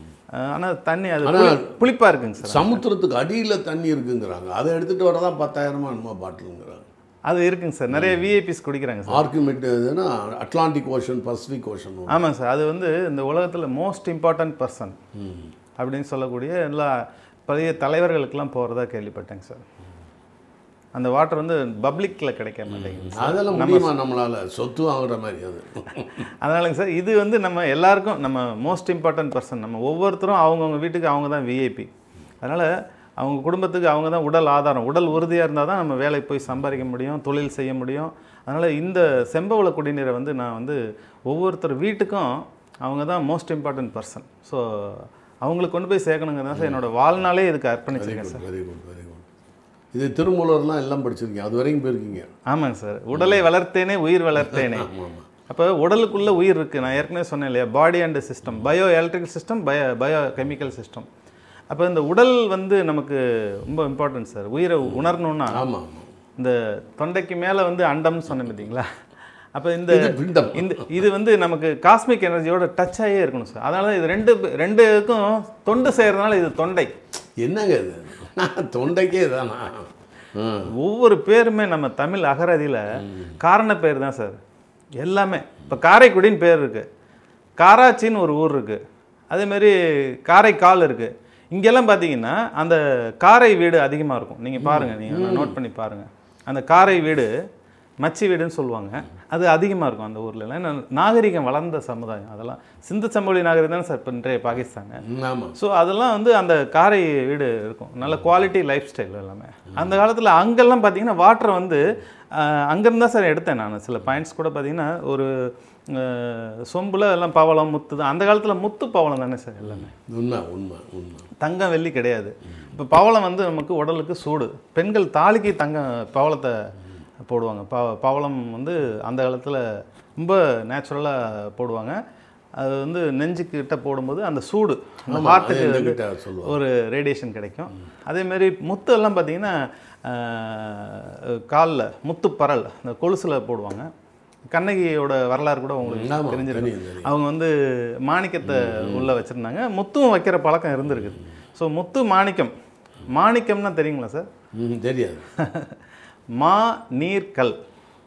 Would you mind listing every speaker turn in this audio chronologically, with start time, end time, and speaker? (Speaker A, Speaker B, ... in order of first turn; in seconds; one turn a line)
Speaker A: 0.4-2.8
Speaker B: 1.2-1.7
Speaker B: 2.4-6.9
Speaker A: 7.3-9.3
Speaker B: 7.9-8.2
Speaker B: 9.1-12.2
Speaker A: 12.1-15.0
Speaker B: 15.2-15.5
Speaker A: 15.8-19.6
Speaker A: 20.9-23.9
Speaker B: 22.9-26.3
Speaker A: 26.4-31.9
Speaker A: 32.4-48.5
Speaker B: 46.5-46.8
Speaker B: 48.0-49.3
Speaker B: 49.9-52.3
Speaker A: 52.5-54.9
Speaker B: 53.1-53.4
Speaker B: 54.4-55.3
Speaker A: 55.5-61.1
Speaker A: 61.7-65.7
Speaker B: 64.9-66.1
Speaker A: 66.4-68.9
Speaker A: 69.5-76.9
Speaker B: 69.9-71.0
Speaker B: 77.4-80.7
Speaker A: 80.8-84.4
Speaker A: 85.0-86.9
Speaker A: 87.6-88.8
Speaker A: 89.3-97.3
Speaker B: 94.6-95.6
Speaker A: 98.0-105.0
Speaker B: 105.0-105.5
Speaker A: 105.5-119.9
Speaker B: 120.0-121.3
Speaker A: 121.4-126.7
Speaker A: 127.3-132.0
Speaker A: 132.6-143.9
Speaker B: 135.1-136.6
Speaker A: 144.5-152.5
Speaker B: 145.8-147.1
Speaker B: 148.4-149.1
Speaker A: 153.1-154.3
Speaker B: 154.6-155.3
Speaker A: 155.4-155.7
Speaker A: 156.4-157.6